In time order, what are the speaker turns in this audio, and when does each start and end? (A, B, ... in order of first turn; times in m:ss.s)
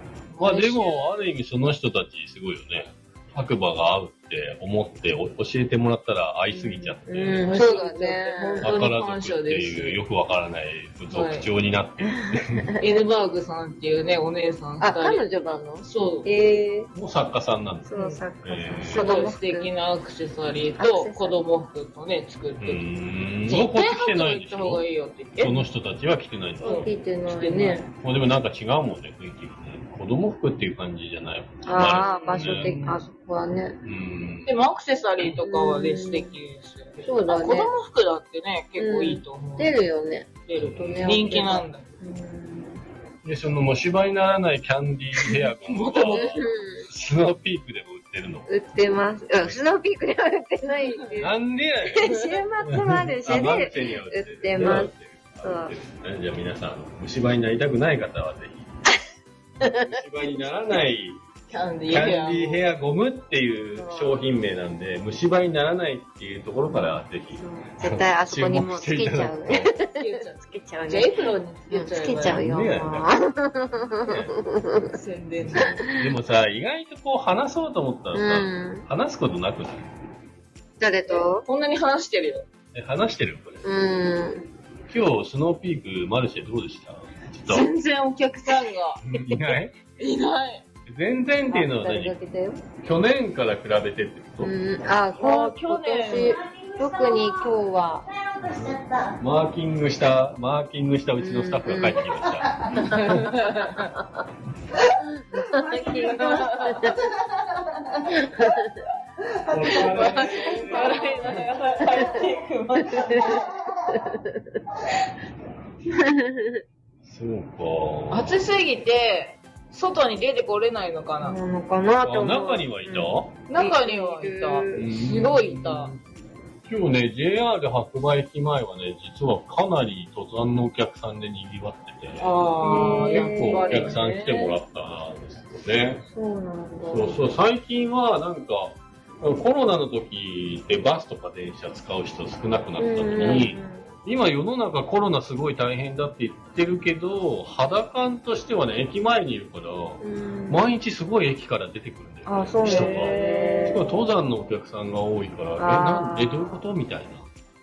0:00.3-0:01.0 A
0:00.4-0:07.8 B
0:06.5-0:08.7 C
0:07.5-0:10.0 A
0:08.6-0:12.8 B
0:11.1-0:11.5 A
0:12.8-0:15.3 A
0:14.8-0:16.9 C
0:15.8-0:16.3 A
0:16.9-0:19.2 B
0:17.9-0:19.7 C
0:18.0-0:18.2 A
0:18.9-0:22.8 A
0:20.8-0:21.4 C
0:22.6-0:24.8 B
0:23.5-0:25.6 A
0:25.4-0:26.9 B
0:26.6-0:27.8 C
0:26.6-0:27.9 A
0:28.0-0:32.8 B
0:31.6-0:33.8 C
0:31.8-0:33.0 A
0:33.8-0:34.6 B
0:34.4-0:39.8 A
0:35.4-0:36.3 C
0:37.0-0:37.7 C
0:38.8-0:42.8 C
0:40.5-0:41.9 A
0:40.6-0:41.2 B
0:43.2-0:48.5 B
0:45.3-0:46.4 A
0:46.0-0:46.8 C
0:48.5-0:51.3 C
0:50.9-0:51.2 A
0:51.2-0:58.7 B
0:51.9-0:54.9 C
0:52.0-0:52.4 A
0:55.4-0:55.7 C
0:59.6-1:01.2 B
0:59.6-1:00.0 C
1:01.5-1:02.6 A
1:01.9-1:09.7 B
1:03.8-1:04.3 C
1:06.7-1:15.0 C
1:09.9-1:12.4 A
1:12.2-1:13.1 B
1:14.0-1:14.3 B
1:14.9-1:15.8 A
1:15.4-1:19.9 B
1:15.6-1:16.0 C
1:18.1-1:18.8 C
1:20.8-1:21.4 C
1:21.1-1:22.5 A
1:22.7-1:23.6 B
1:23.6-1:24.5 C
1:24.9-1:27.7 B
1:27.5-1:29.0 A
1:29.0-1:29.7 B
1:30.0-1:30.6 A
1:30.9-1:32.2 B
1:31.5-1:32.6 C
1:32.8-1:34.6 B
1:34.4-1:38.1 C
1:35.2-1:36.4 A
1:38.4-1:42.8 B
1:41.2-1:42.2 C
1:42.6-1:43.9 A
1:42.8-1:43.2 C
1:44.8-1:47.2 A
1:45.3-1:47.0 C
1:48.0-1:48.6 A
1:48.2-1:48.7 C
1:49.5-1:51.4 B
1:49.5-1:53.7 A
1:50.0-1:51.3 C
1:52.9-1:54.4 C
1:56.0-1:56.6 C
1:57.0-1:58.4 B
1:58.1-2:01.4 A
2:01.2-2:04.9 C
2:02.0-2:03.3 B
2:03.5-2:05.9 A
2:04.8-2:06.0 B
2:06.6-2:16.0 B
2:12.2-2:14.5 A
2:12.6-2:14.0 C
2:16.0-2:17.3 C
2:16.8-2:37.3 B
2:22.8-2:23.9 C
2:30.0-2:30.7 C
2:32.3-2:34.0 C
2:32.6-2:33.9 A
2:35.6-2:36.6 C